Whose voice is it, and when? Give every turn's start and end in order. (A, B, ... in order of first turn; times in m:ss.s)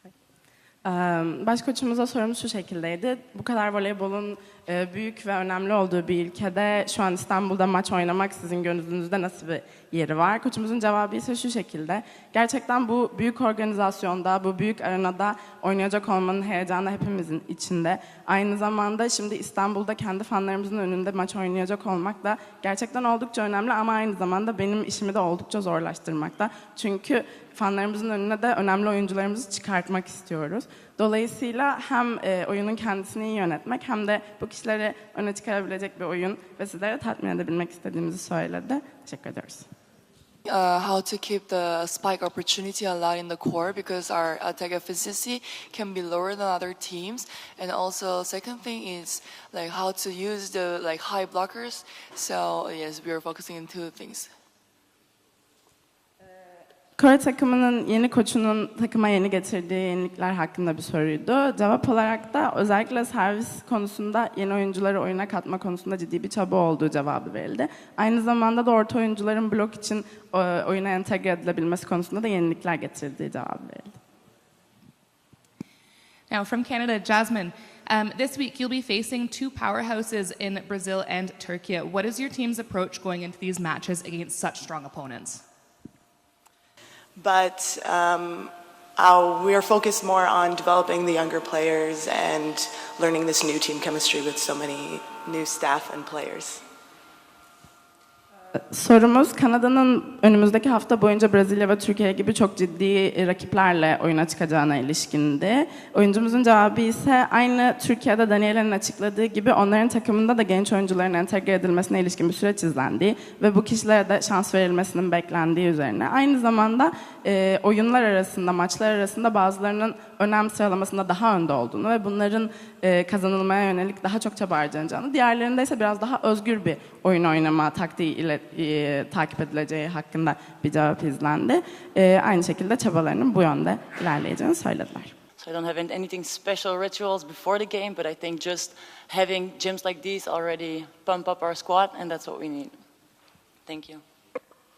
0:00.8-0:39.7 A
0:40.4-0:54.3 B
0:57.0-1:14.0 A
1:16.3-1:25.4 C
1:27.2-1:36.6 D
1:38.7-2:15.1 A
2:15.4-2:22.8 E
2:23.6-2:24.0 E